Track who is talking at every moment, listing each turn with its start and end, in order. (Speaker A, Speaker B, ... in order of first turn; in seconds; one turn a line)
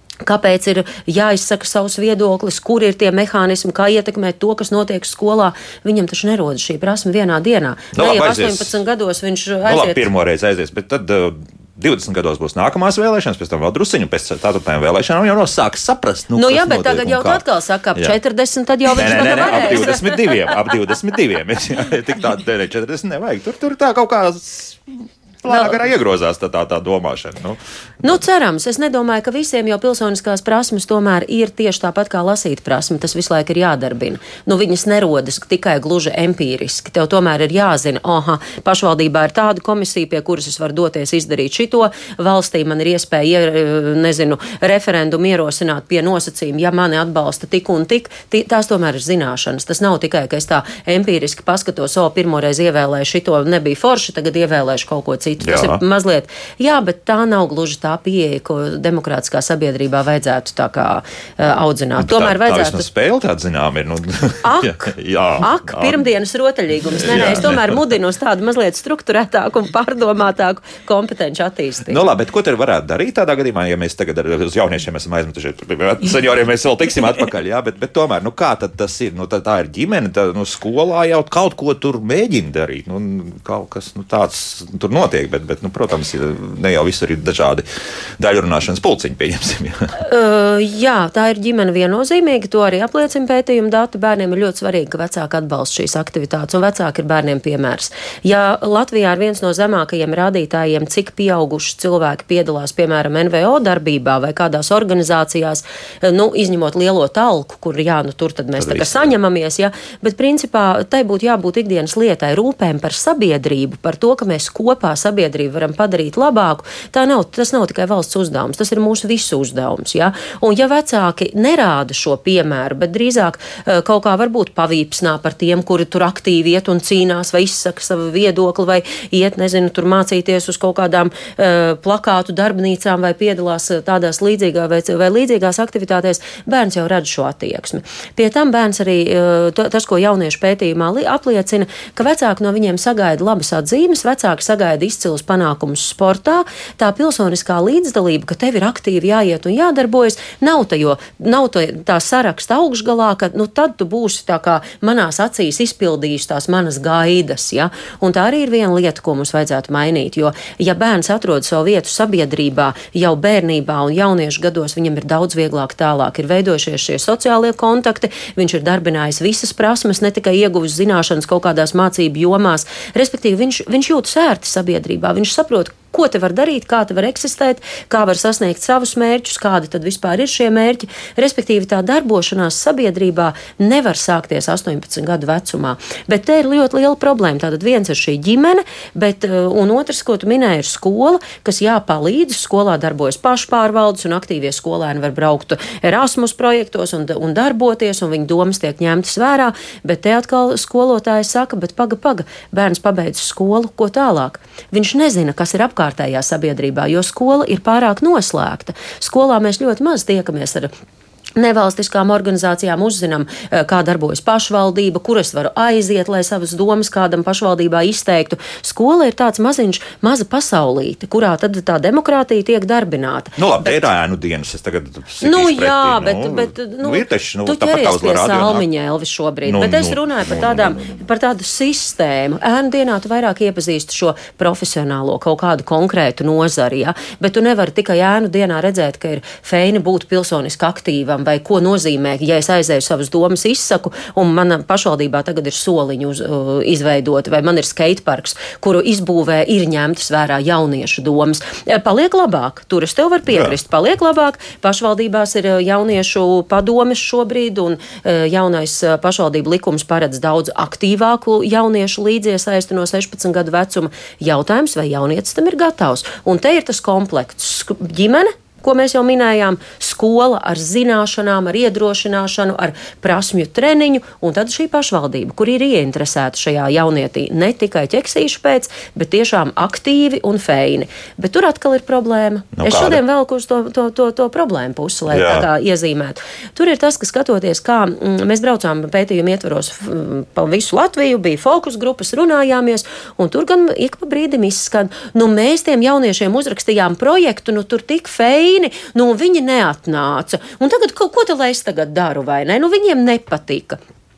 Speaker A: 0.2-10.1
Speaker B: 7.9-8.7
Speaker B: 9.7-17.4
Speaker A: 16.3-20.4
Speaker B: 18.9-28.2
Speaker A: 25.5-25.8
Speaker A: 28.0-62.9
Speaker B: 55.4-55.8
Speaker B: 62.0-66.0
Speaker A: 64.4-72.0
Speaker B: 67.0-67.8
Speaker B: 71.9-87.7
Speaker B: 88.2-89.8
Speaker A: 90.0-210.7
Speaker B: 108.6-109.1
Speaker A: 211.4-223.9
Speaker B: 223.4-228.7
Speaker A: 225.2-303.8
Speaker B: 229.5-231.1
Speaker B: 253.3-253.6
Speaker B: 282.6-283.0
Speaker B: 285.1-285.5